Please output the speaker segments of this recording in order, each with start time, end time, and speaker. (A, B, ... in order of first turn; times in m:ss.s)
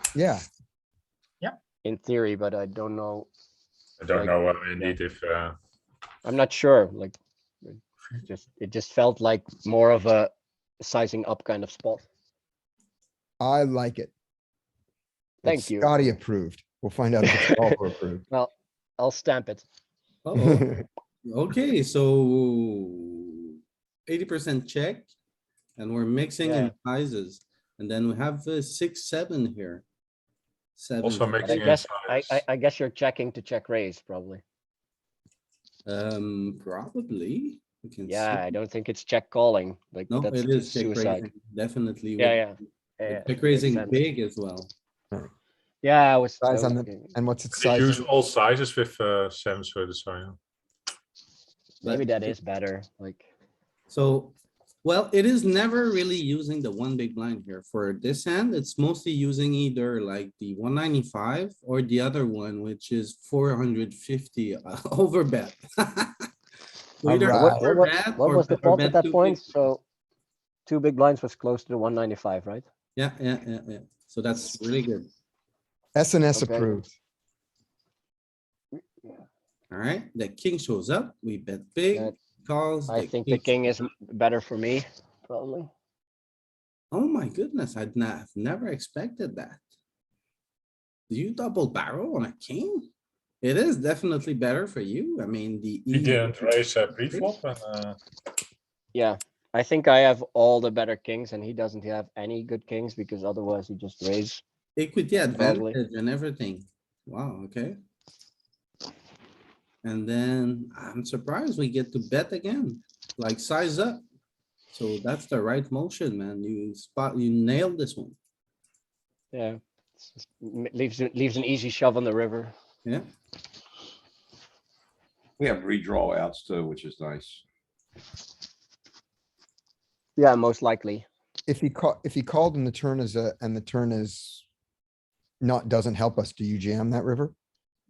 0:00.2-0:00.4 A
0:01.8-0:03.3 B
0:04.0-0:05.6 C
0:04.1-0:05.0 B
0:06.2-0:12.1 B
0:13.4-0:14.1 A
0:15.4-0:15.9 B
0:15.4-0:18.2 A
0:17.2-0:17.7 B
0:18.3-0:19.6 B
0:20.2-0:20.7 D
0:20.4-0:20.8 A
0:21.2-0:25.1 D
0:25.8-0:29.8 D
0:26.4-0:26.7 B
0:30.8-0:31.7 D
0:31.0-0:32.4 C
0:31.4-0:34.4 B
0:35.9-0:38.5 D
0:38.1-0:41.3 B
0:40.1-0:42.4 D
0:42.2-0:44.0 B
0:43.1-0:44.7 D
0:45.8-0:47.1 B
0:46.4-0:48.1 A
0:47.6-0:50.4 C
0:51.8-0:52.4 D
0:51.8-0:53.3 B
0:53.9-1:06.3 D
1:07.0-1:09.5 D
1:07.1-1:07.7 A
1:07.3-1:09.8 B
1:10.7-1:12.7 B
1:13.0-1:15.1 D
1:16.0-1:16.9 A
1:16.3-1:16.8 B
1:19.7-1:23.5 D
1:22.9-1:25.7 B
1:26.9-1:29.6 D
1:31.1-1:32.9 D
1:33.4-1:37.3 D
1:35.9-1:38.0 C
1:38.9-1:44.4 B
1:44.8-1:47.8 D
1:45.3-1:45.8 B
1:49.8-1:54.0 D
1:54.7-1:58.2 D
1:59.3-2:02.5 B
2:05.4-2:07.4 E
2:10.2-2:11.1 B
2:11.5-2:14.4 A
2:15.4-2:17.3 A